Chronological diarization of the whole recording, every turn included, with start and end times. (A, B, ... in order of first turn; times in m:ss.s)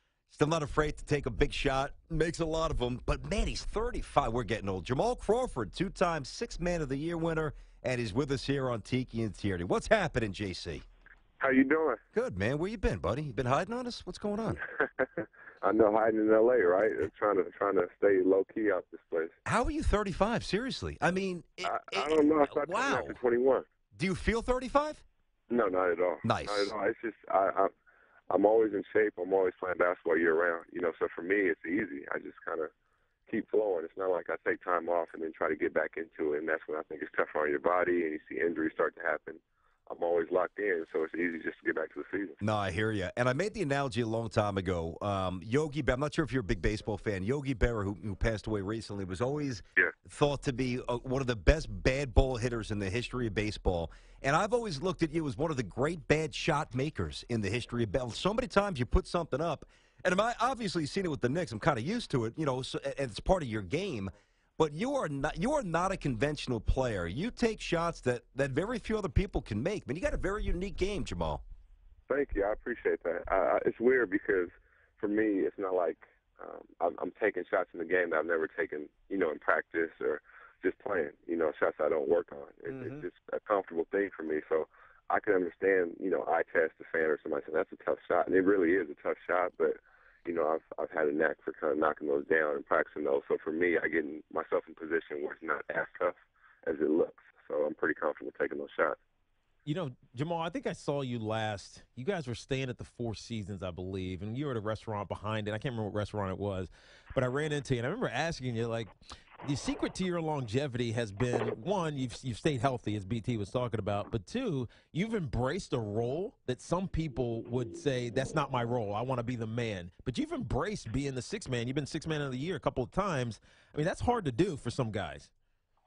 0:00.3-0:10.8 A
0:11.4-0:12.0 B
0:12.1-0:14.6 A
0:14.6-0:19.4 B
0:19.4-0:23.2 A
0:21.6-0:23.6 B
0:24.0-0:25.0 A
0:25.5-0:27.7 B
0:26.2-0:26.7 A
0:28.3-0:32.7 B
0:33.3-0:42.4 B
0:42.4-1:11.4 A
1:12.1-1:39.0 B
1:22.7-1:23.0 C
1:39.6-2:05.3 C